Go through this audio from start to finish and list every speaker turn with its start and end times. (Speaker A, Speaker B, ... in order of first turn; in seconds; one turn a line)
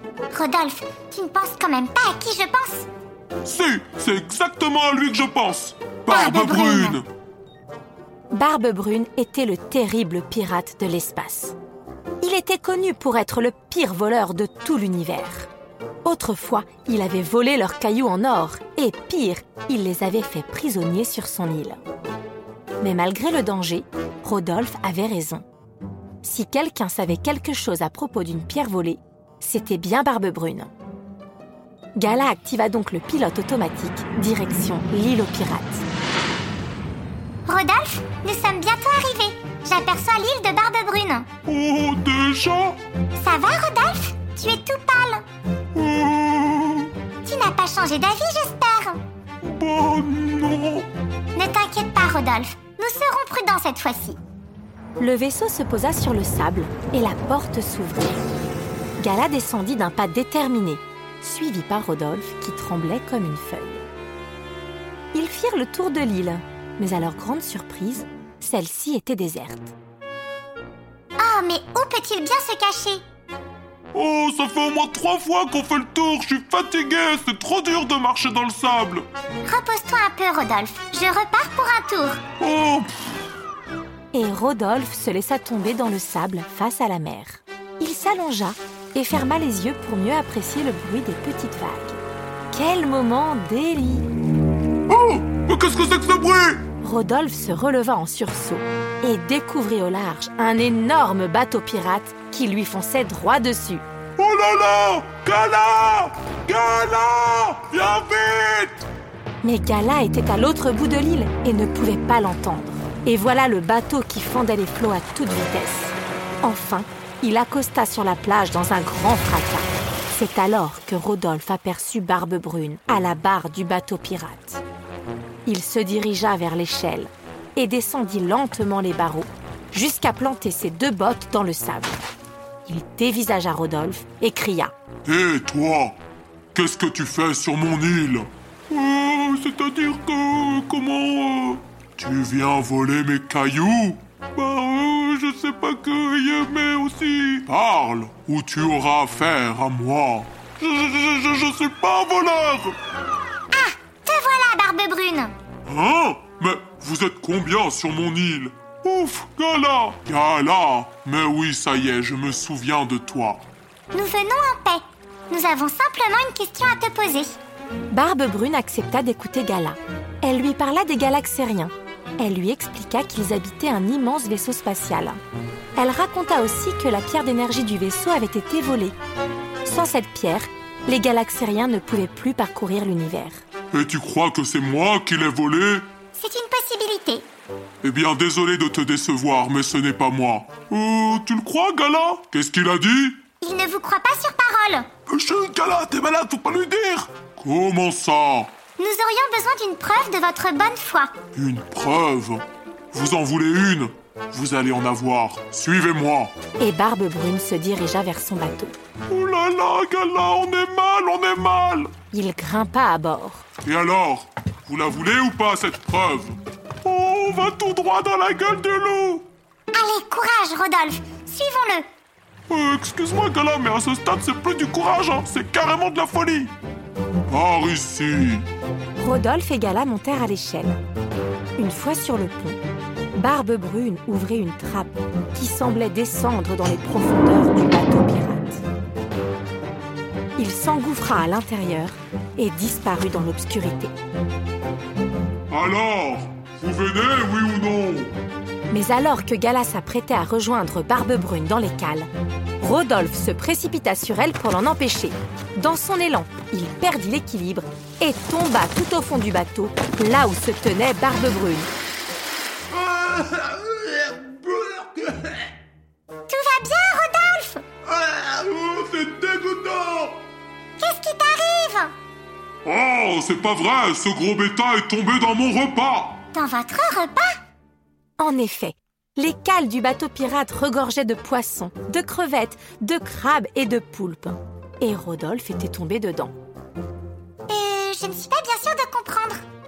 Speaker A: 0.3-2.9
Speaker B: 3.4-7.1
Speaker A: 6.1-7.0
Speaker C: 8.3-11.6
Speaker C: 12.2-15.5
Speaker C: 16.0-21.8
Speaker C: 22.8-25.5
Speaker C: 26.2-30.7
Speaker C: 32.0-35.9
Speaker A: 37.5-41.3
Speaker B: 41.5-42.8
Speaker A: 43.2-45.2
Speaker B: 45.8-46.9
Speaker A: 47.2-49.0
Speaker B: 49.4-50.9
Speaker A: 51.4-54.2
Speaker C: 55.0-58.2
Speaker C: 59.0-63.9
Speaker C: 65.1-69.7
Speaker A: 71.2-73.0
Speaker B: 73.9-79.1
Speaker A: 79.5-82.2
Speaker B: 82.4-82.9
Speaker C: 84.1-92.0
Speaker C: 92.5-94.1
Speaker B: 94.9-96.6
Speaker C: 96.8-103.8
Speaker B: 104.2-108.9
Speaker C: 109.4-124.6
Speaker C: 125.5-132.0
Speaker C: 132.7-134.7
Speaker B: 135.1-136.0
Speaker B: 136.5-152.8
Speaker A: 153.5-155.3
Speaker B: 155.7-163.5
Speaker A: 163.9-167.4
Speaker C: 167.9-175.2
Speaker C: 175.8-179.0
Speaker C: 179.6-183.4
Speaker B: 183.7-185.9
Speaker A: 186.2-187.3
Speaker B: 187.8-193.2
Speaker A: 193.4-194.9
Speaker B: 195.1-198.6
Speaker A: 198.8-201.1
Speaker B: 201.3-206.3
Speaker C: 206.6-208.8
Speaker B: 209.1-211.9
Speaker C: 212.1-213.4
Speaker B: 213.6-219.3
Speaker A: 219.7-221.9
Speaker B: 222.5-226.6
Speaker B: 227.3-228.5
Speaker C: 229.0-230.8
Speaker C: 231.6-232.6
Speaker C: 233.2-238.6
Speaker C: 240.4-243.9
Speaker B: 245.5-248.2
Speaker C: 248.7-261.7
Speaker B: 262.7-265.3
Speaker A: 266.3-267.6
Speaker B: 267.9-270.2
Speaker A: 270.8-271.9
Speaker B: 272.6-276.2
Speaker A: 276.3-277.4
Speaker C: 278.2-286.4
Speaker A: 287.5-289.4